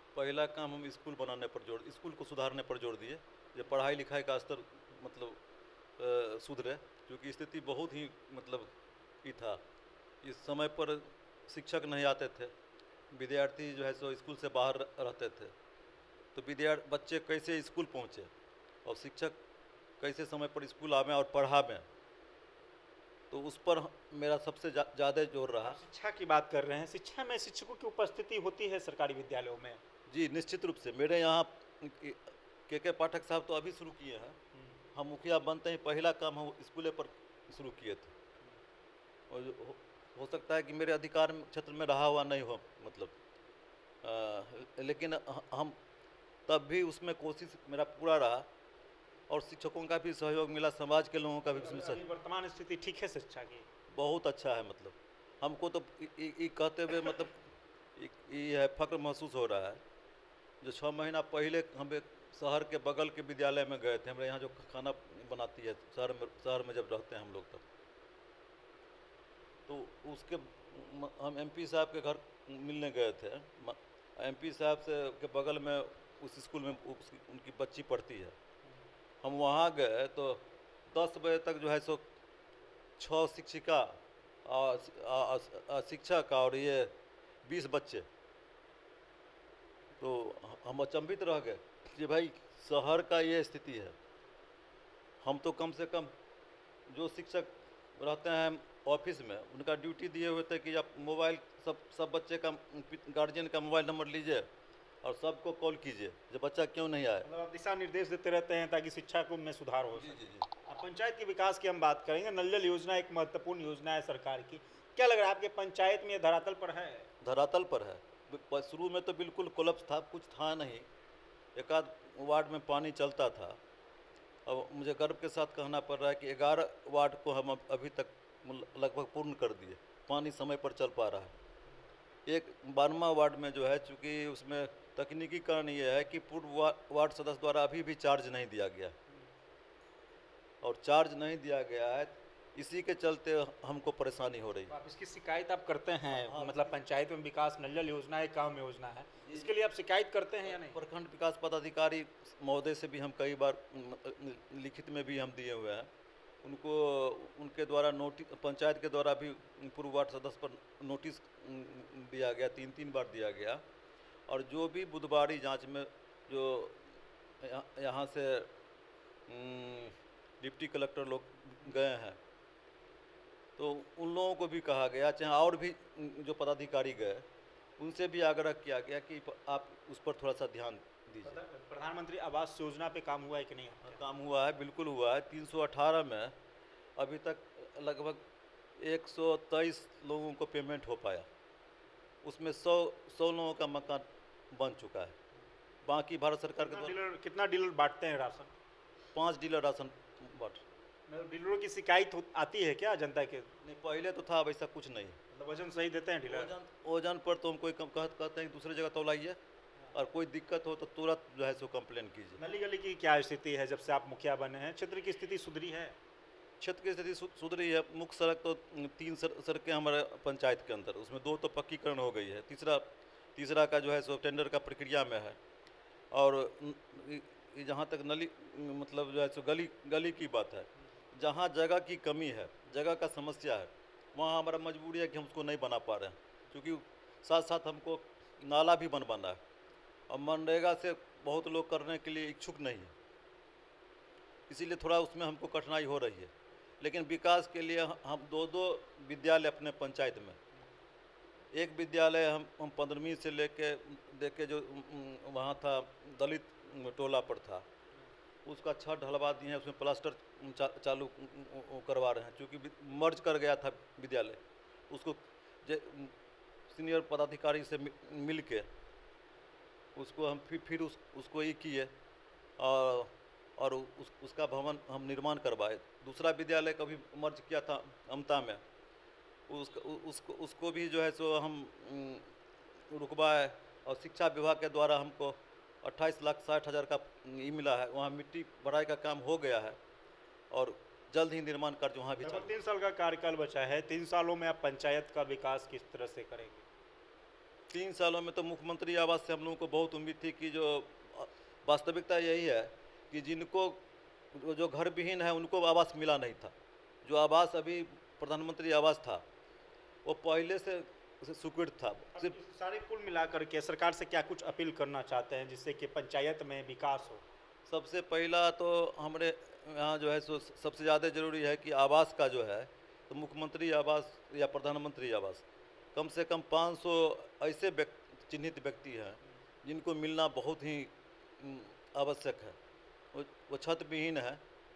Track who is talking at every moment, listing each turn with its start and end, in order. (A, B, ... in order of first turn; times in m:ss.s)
0:00.1-0:05.4 A
0:06.0-0:09.6 A
0:10.2-0:12.5 A
0:13.1-0:15.5 A
0:16.3-0:18.3 A
0:18.8-0:19.4 A
0:20.0-0:21.8 A
0:23.3-0:25.8 A
0:25.6-0:29.8 B
0:30.1-0:34.4 A
0:34.5-0:34.8 B
0:34.9-0:38.1 A
0:39.3-0:43.2 A
0:44.0-0:45.8 A
0:46.5-0:48.5 A
0:49.3-0:52.0 A
0:51.5-0:53.6 B
0:53.9-0:57.4 A
0:58.0-0:59.8 A
1:00.6-1:07.6 A
1:09.7-1:18.3 A
1:19.2-1:22.0 A
1:23.0-1:26.9 A
1:27.4-1:28.1 A
1:30.0-1:33.9 A
1:35.2-1:36.1 A
1:36.9-1:44.5 A
1:45.0-1:47.2 A
1:47.2-1:57.1 B
1:49.9-1:50.5 A
1:57.2-2:00.9 A
2:01.5-2:03.6 A
2:04.4-2:11.3 A
2:12.2-2:18.9 A
2:20.6-2:24.7 A
2:24.7-2:30.8 B
2:26.1-2:26.7 A
2:29.2-2:29.5 A
2:30.4-2:35.9 A
2:36.4-2:43.6 A
2:44.3-2:46.8 A
2:47.4-2:48.5 A
2:49.3-2:52.2 A
2:53.6-2:57.2 A
2:57.8-3:01.4 A
3:01.2-3:04.0 B
3:03.8-3:06.3 A
3:07.0-3:08.2 A
3:08.8-3:11.3 A
3:12.2-3:15.2 A
3:15.8-3:17.0 A
3:16.6-3:18.5 B
3:19.1-3:20.6 A
3:21.1-3:23.5 B
3:23.6-3:25.2 A
3:25.3-3:26.5 B
3:26.3-3:29.4 A
3:29.9-3:32.4 A
3:32.4-3:35.9 B
3:36.6-3:45.4 A
3:46.1-3:59.4 A
4:00.1-4:02.9 A
4:04.5-4:10.4 A
4:11.5-4:17.6 A
4:18.4-4:26.1 A
4:26.7-4:28.6 A
4:29.9-4:31.9 A
4:32.6-4:38.6 A
4:39.5-4:42.3 A
4:42.9-4:49.8 A
4:50.5-4:52.5 A
4:52.2-4:56.6 B
4:57.7-5:03.8 A
5:04.3-5:09.2 A
5:10.0-5:12.4 A
5:12.2-5:17.2 B
5:17.7-5:32.6 A
5:33.1-5:34.4 A